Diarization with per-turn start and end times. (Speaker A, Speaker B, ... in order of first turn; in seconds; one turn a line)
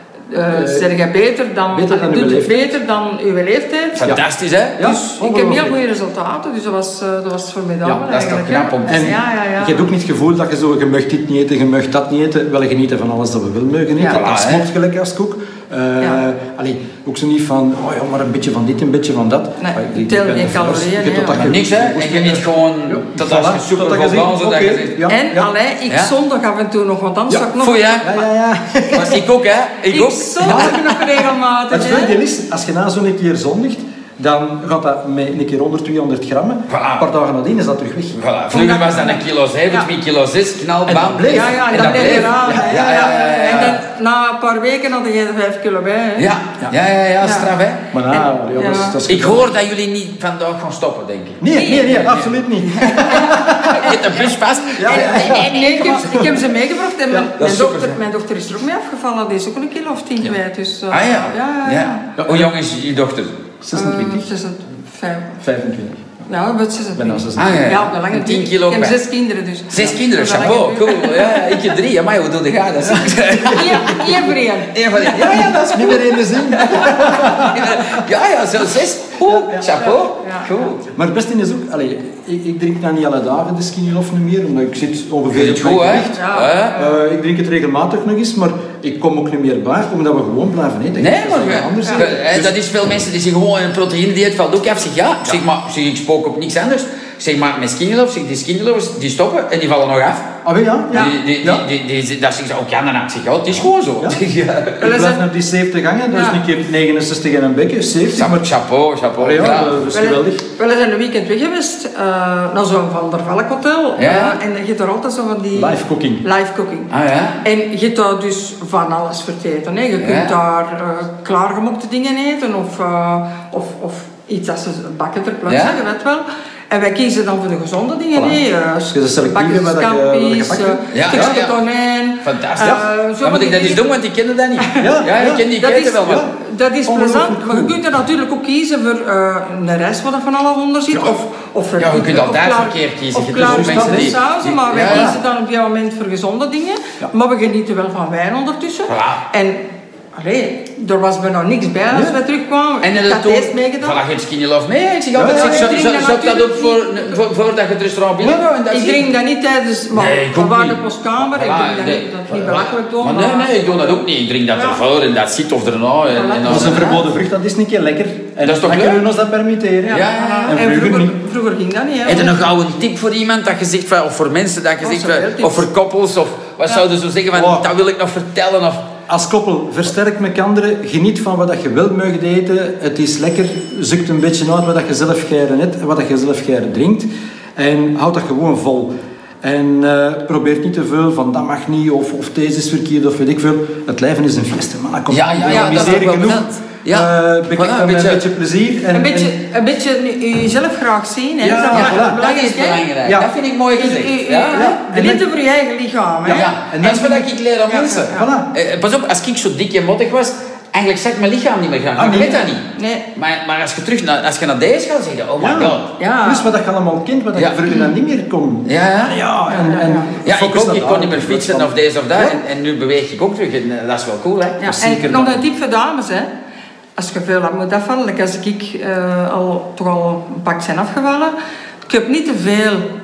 Speaker A: 0.3-4.1
Speaker B: 0.5-0.9
Speaker B: 1.7-2.8
Speaker C: 4.0-4.8
Speaker B: 4.8-5.8
Speaker A: 4.8-9.9
Speaker C: 7.8-9.2
Speaker B: 8.8-25.5
Speaker C: 14.1-14.6
Speaker A: 19.6-21.5
Speaker C: 21.4-25.0
Speaker A: 25.1-28.1
Speaker C: 27.6-28.1
Speaker B: 28.0-29.2
Speaker C: 28.9-30.9
Speaker A: 29.9-32.2
Speaker B: 30.4-31.1
Speaker B: 31.7-38.2
Speaker C: 36.7-37.1
Speaker C: 38.1-43.8
Speaker A: 38.5-39.9
Speaker B: 40.9-43.1
Speaker A: 41.2-46.3
Speaker C: 46.2-47.9
Speaker A: 47.2-47.5
Speaker B: 47.9-49.5
Speaker A: 48.1-49.0
Speaker C: 49.1-52.3
Speaker B: 51.4-53.9
Speaker A: 51.5-52.1
Speaker A: 52.8-54.3
Speaker C: 53.0-56.3
Speaker B: 54.7-56.4
Speaker A: 54.8-62.0
Speaker B: 57.1-57.7
Speaker C: 57.4-58.0
Speaker C: 60.9-63.4
Speaker B: 62.2-62.5
Speaker B: 63.6-64.3
Speaker A: 63.7-65.4
Speaker B: 65.4-66.2
Speaker A: 66.3-71.7
Speaker B: 67.0-67.7
Speaker C: 67.4-69.0
Speaker C: 69.7-80.8
Speaker B: 72.8-73.5
Speaker A: 73.3-75.4
Speaker B: 75.2-77.8
Speaker B: 79.2-79.7
Speaker A: 79.8-80.5
Speaker B: 80.9-92.5
Speaker C: 85.3-86.8
Speaker A: 86.1-87.0
Speaker C: 91.0-100.3
Speaker B: 100.4-101.7
Speaker C: 100.9-104.9
Speaker A: 104.8-105.2
Speaker B: 104.8-108.5
Speaker A: 106.1-106.4
Speaker C: 108.1-109.8
Speaker B: 109.2-110.4
Speaker A: 109.9-116.9
Speaker C: 114.0-114.4
Speaker B: 115.5-116.2
Speaker C: 116.9-117.4
Speaker A: 117.4-133.8
Speaker C: 120.0-120.3
Speaker C: 125.5-125.8
Speaker B: 128.1-131.4
Speaker C: 130.9-131.6
Speaker C: 132.2-136.2
Speaker A: 134.6-135.0
Speaker B: 134.8-135.5
Speaker A: 135.6-154.0
Speaker B: 136.0-136.3
Speaker B: 136.8-137.8
Speaker C: 141.8-145.2
Speaker B: 143.4-144.1
Speaker B: 144.8-145.2
Speaker C: 148.9-149.2
Speaker C: 152.8-159.1
Speaker B: 155.1-155.8
Speaker A: 155.2-157.2
Speaker A: 158.2-164.8
Speaker C: 159.9-167.0
Speaker A: 166.1-167.1
Speaker B: 166.4-171.1
Speaker C: 168.4-169.0
Speaker A: 169.8-172.4
Speaker C: 169.9-170.6
Speaker C: 172.1-178.8
Speaker A: 174.8-175.7
Speaker B: 177.3-177.7
Speaker B: 179.1-188.9
Speaker B: 189.4-199.3
Speaker C: 195.1-198.2
Speaker A: 195.5-195.9
Speaker A: 198.9-202.9
Speaker B: 201.4-202.2
Speaker C: 201.7-204.6
Speaker A: 203.7-206.5
Speaker B: 204.5-205.2
Speaker C: 206.2-215.9
Speaker B: 206.6-207.3
Speaker A: 207.7-208.3
Speaker B: 208.1-208.5
Speaker B: 211.9-212.5
Speaker A: 212.7-213.1
Speaker B: 215.4-222.4
Speaker A: 216.0-216.5
Speaker C: 217.3-217.6
Speaker C: 218.7-219.2
Speaker A: 219.5-220.1
Speaker C: 220.2-224.6
Speaker A: 224.6-226.3
Speaker B: 224.7-225.4
Speaker A: 227.0-231.3
Speaker A: 231.8-232.9